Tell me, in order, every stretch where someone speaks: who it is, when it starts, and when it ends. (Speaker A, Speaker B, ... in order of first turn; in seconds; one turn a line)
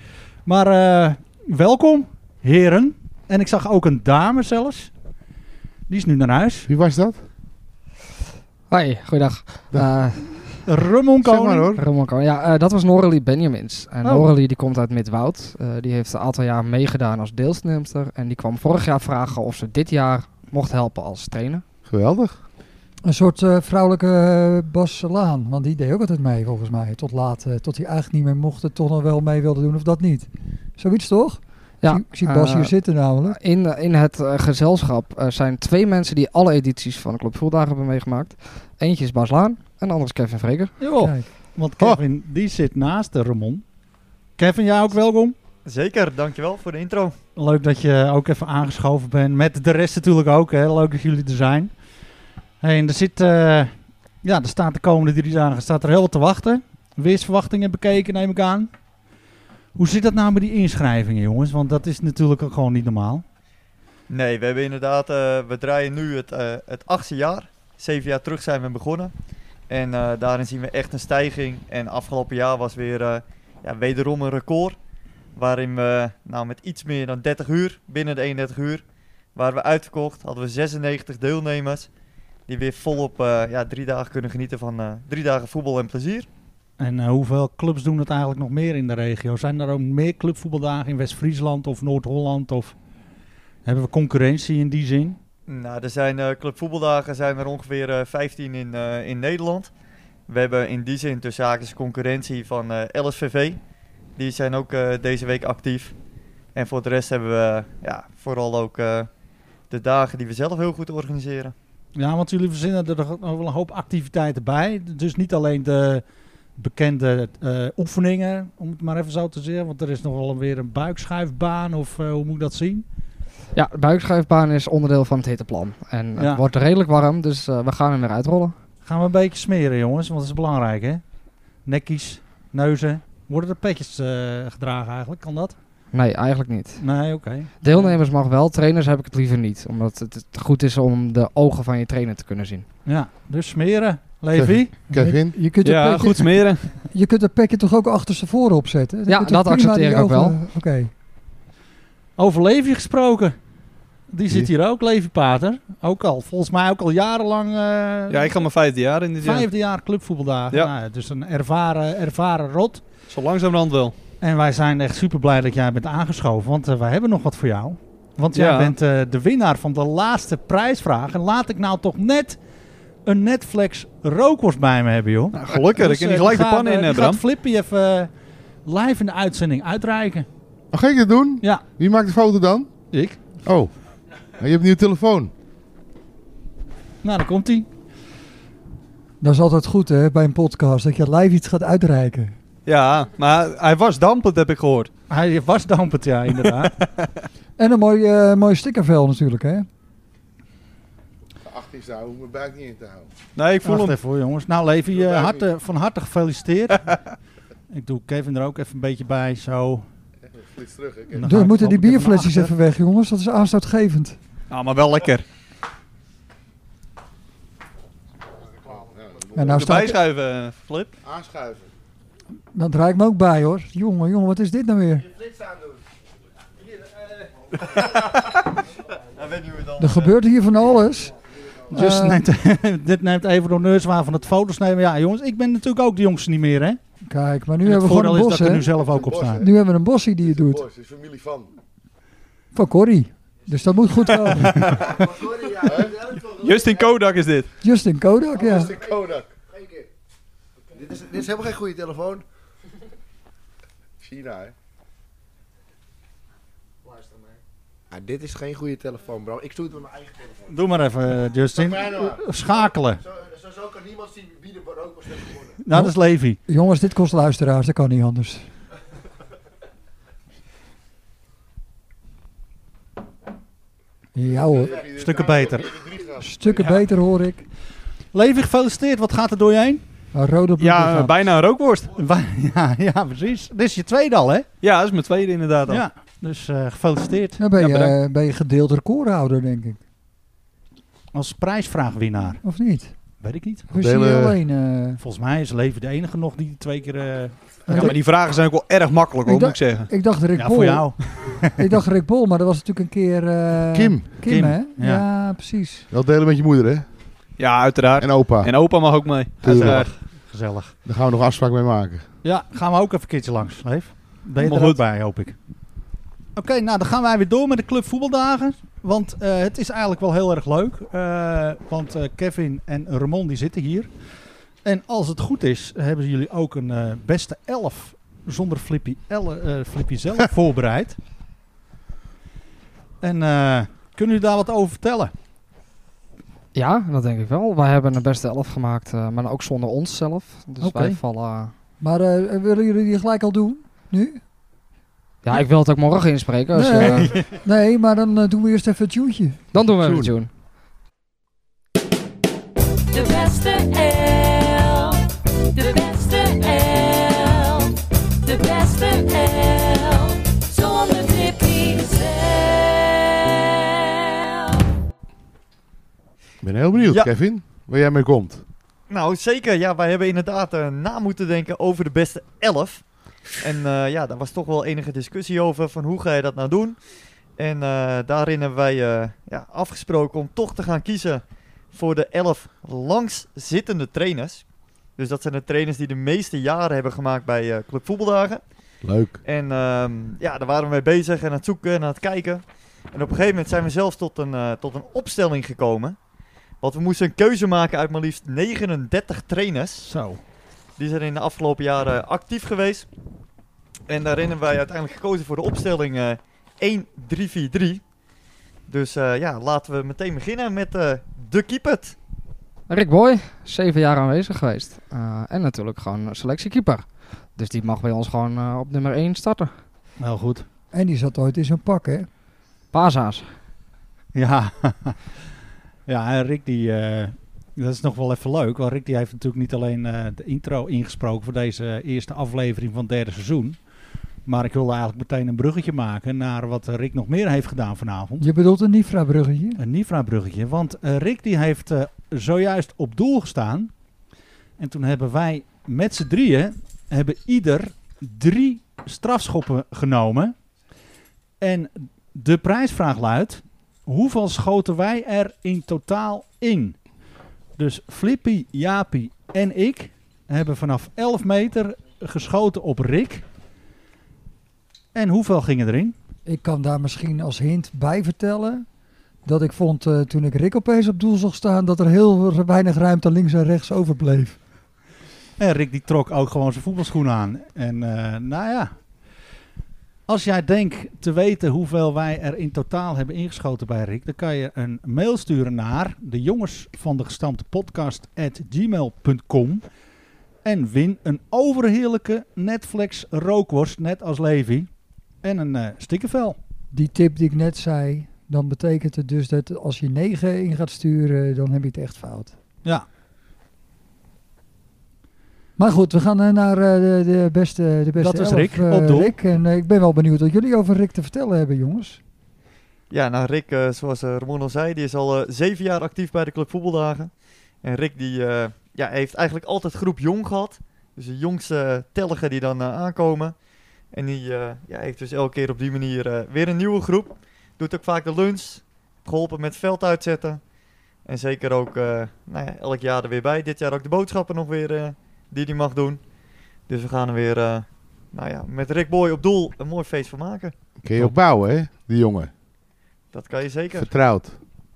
Speaker A: 0.4-4.9
Speaker A: 5.9-6.7
Speaker B: 6.7-7.2
Speaker C: 8.7-10.4
Speaker A: 10.7-11.8
Speaker B: 11.2-11.8
Speaker C: 11.8-21.6
Speaker A: 14.0-14.3
Speaker B: 21.9-22.4
Speaker D: 23.0-33.4
Speaker C: 31.8-32.7
Speaker C: 33.3-40.7
Speaker A: 40.8-43.6
Speaker D: 41.0-41.3
Speaker A: 44.4-45.4
Speaker E: 45.6-47.1
Speaker A: 47.4-51.7
Speaker A: 52.6-58.7
Speaker A: 59.7-63.2
Speaker E: 64.1-69.1
Speaker E: 69.7-74.8
Speaker E: 75.4-78.8
Speaker E: 79.3-81.9
Speaker E: 82.5-86.3
Speaker A: 86.8-92.7
Speaker A: 93.6-95.2
Speaker E: 95.5-99.7
Speaker E: 100.3-103.6
Speaker E: 104.2-105.9
Speaker E: 106.5-109.1
Speaker E: 109.7-111.5
Speaker A: 112.0-116.0
Speaker A: 116.6-122.8
Speaker C: 123.5-128.5
Speaker A: 126.2-126.4
Speaker A: 128.8-131.0
Speaker A: 131.7-135.5
Speaker C: 135.9-136.8
Speaker A: 136.8-137.9
Speaker C: 137.6-142.7
Speaker A: 142.9-144.8
Speaker B: 144.3-145.4
Speaker D: 144.9-150.9
Speaker F: 145.6-146.7
Speaker C: 149.1-150.4
Speaker A: 152.2-153.4
Speaker A: 154.1-158.4
Speaker F: 158.1-159.5
Speaker A: 159.2-162.8
Speaker F: 163.1-163.9
Speaker A: 164.2-172.4
Speaker F: 168.3-168.7
Speaker A: 173.0-178.1
Speaker F: 175.3-177.2
Speaker A: 178.7-180.3
Speaker B: 180.7-182.7
Speaker A: 182.9-183.2
Speaker B: 183.4-183.7
Speaker B: 184.4-185.3
Speaker A: 187.0-187.7
Speaker D: 189.2-192.4
Speaker F: 192.7-194.9
Speaker A: 195.1-196.7
Speaker F: 196.6-197.1
Speaker D: 197.6-199.7
Speaker B: 201.6-203.0
Speaker F: 203.4-204.0
Speaker A: 203.6-206.9
Speaker A: 207.7-209.9
Speaker B: 210.6-211.0
Speaker A: 211.1-212.5
Speaker D: 211.2-214.2
Speaker F: 214.5-215.2
Speaker G: 218.7-219.2
Speaker D: 219.3-220.0
Speaker F: 219.5-220.9
Speaker B: 221.1-221.6
Speaker D: 222.5-225.1
Speaker E: 229.1-230.1
Speaker D: 229.8-231.2
Speaker D: 231.7-232.2
Speaker A: 231.7-236.8
Speaker D: 237.1-238.7
Speaker A: 237.6-239.4
Speaker G: 238.9-239.5
Speaker D: 239.4-240.7
Speaker G: 240.3-241.5
Speaker D: 242.5-244.6
Speaker G: 244.9-246.8
Speaker F: 246.3-247.5
Speaker D: 247.6-248.8
Speaker G: 248.4-249.9
Speaker G: 250.7-252.2
Speaker G: 254.0-254.5
Speaker G: 256.9-257.3
Speaker G: 257.9-260.5
Speaker A: 260.5-263.0
Speaker G: 261.5-262.5
Speaker G: 263.0-265.5
Speaker A: 265.6-266.4
Speaker D: 265.7-268.4
Speaker D: 274.1-274.9
Speaker G: 274.4-276.2
Speaker A: 274.9-275.8
Speaker D: 276.2-277.4
Speaker A: 278.1-279.8
Speaker D: 280.1-281.1
Speaker F: 280.6-281.9
Speaker A: 281.9-284.5
Speaker F: 284.6-285.9
Speaker A: 285.7-287.8
Speaker D: 287.4-289.8
Speaker F: 287.6-287.9
Speaker A: 291.1-292.4
Speaker D: 292.4-292.9
Speaker A: 293.2-293.7
Speaker D: 293.7-295.0
Speaker B: 293.7-294.4
Speaker A: 295.0-297.3
Speaker D: 297.7-297.9
Speaker F: 297.7-299.9
Speaker D: 299.2-305.9
Speaker A: 300.4-301.6
Speaker B: 303.7-304.1
Speaker A: 304.2-305.0
Speaker B: 305.9-306.9
Speaker F: 307.4-309.9
Speaker B: 308.0-308.8
Speaker B: 309.4-309.9
Speaker A: 309.4-310.7
Speaker B: 310.9-312.1
Speaker A: 312.2-315.4
Speaker F: 314.4-314.8
Speaker A: 316.4-323.9
Speaker A: 324.6-331.0
Speaker A: 333.0-335.1
Speaker C: 336.5-341.5
Speaker A: 340.6-341.0
Speaker D: 341.8-344.2
Speaker C: 345.2-347.2
Speaker D: 346.5-349.4
Speaker A: 346.8-347.2
Speaker B: 349.5-350.1
Speaker C: 349.5-350.3
Speaker H: 352.9-364.6
Speaker B: 366.4-368.4
Speaker E: 366.8-367.1
Speaker E: 368.9-372.8
Speaker E: 373.4-376.8
Speaker E: 377.4-384.4
Speaker E: 385.0-388.4
Speaker B: 388.8-389.2
Speaker E: 389.2-395.9
Speaker E: 396.6-399.9
Speaker A: 399.9-400.2
Speaker E: 400.8-402.9
Speaker E: 403.9-407.8
Speaker E: 408.7-411.9
Speaker C: 412.7-419.5
Speaker A: 420.0-420.4
Speaker D: 420.7-422.1
Speaker C: 422.7-423.3
Speaker A: 424.1-425.0
Speaker A: 425.9-433.6
Speaker A: 434.2-438.2
Speaker D: 438.2-439.6
Speaker A: 439.6-443.7
Speaker A: 444.6-450.3
Speaker A: 451.4-456.8
Speaker A: 457.6-463.2
Speaker A: 464.9-465.9
Speaker D: 466.2-468.6
Speaker D: 469.2-474.4
Speaker A: 475.4-478.7
Speaker A: 480.1-489.6
Speaker A: 490.4-494.7
Speaker A: 495.2-496.4
Speaker D: 496.7-502.4
Speaker D: 505.6-512.0
Speaker A: 508.0-509.1
Speaker E: 512.9-517.1
Speaker E: 517.6-523.4
Speaker E: 523.9-530.4
Speaker E: 531.1-536.0
Speaker E: 536.7-540.5
Speaker B: 540.8-542.3
Speaker E: 543.1-543.9
Speaker B: 543.8-544.4